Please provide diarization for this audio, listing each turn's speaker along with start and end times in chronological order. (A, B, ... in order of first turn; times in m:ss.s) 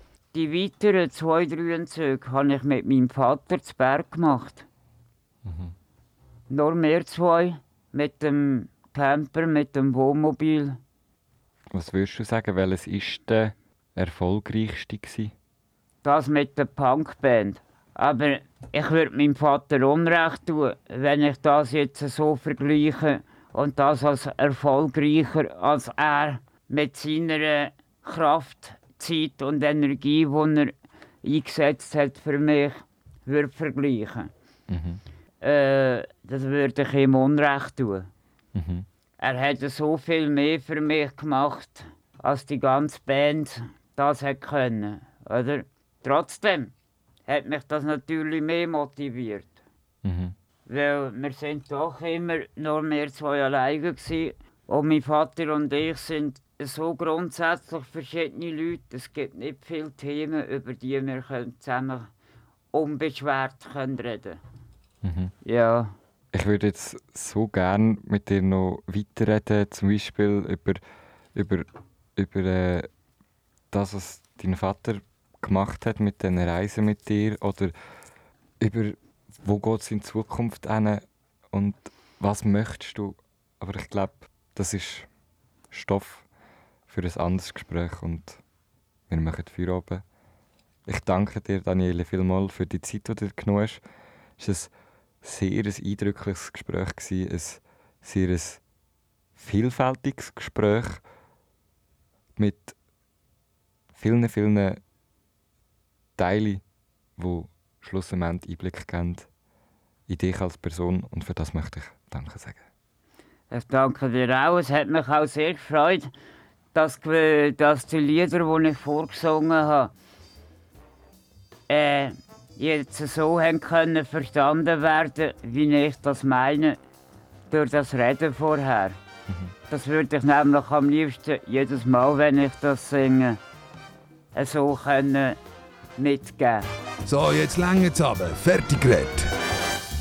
0:00.3-0:04.7 A
0:05.4-0:05.7 B
0:06.5-0:10.8 A
0:11.7-0:15.3 B
0:16.0-0:34.3 A
0:34.7-0:35.0 B
0:35.4-0:38.1 A
0:38.6-0:38.9 B
0:39.2-0:46.7 A
0:47.3-0:49.6 A
0:50.0-0:50.4 B
0:50.7-1:02.1 A
1:02.7-1:04.4 A
1:05.0-1:05.3 B
1:05.4-1:05.9 A
1:06.3-1:10.8 B
1:11.4-1:12.9 B
1:13.7-1:17.7 B
1:18.6-1:25.1 B
1:25.7-1:26.3 B
1:26.9-1:28.4 B
1:29.1-1:30.0 B
1:30.9-1:33.8 B
1:34.4-1:34.7 B
1:35.2-1:38.6 B
1:39.4-1:41.0 B
1:42.4-1:42.8 B
1:43.9-1:44.8 B
1:46.2-1:46.6 B
1:47.2-1:49.3 B
1:50.1-1:52.6 B
1:53.5-1:56.1 A
1:56.7-1:59.9 A
2:01.7-2:06.8 A
2:07.5-2:09.0 A
2:09.7-2:13.4 A
2:14.3-2:15.4 A
2:16.0-2:16.7 A
2:17.0-2:19.3 C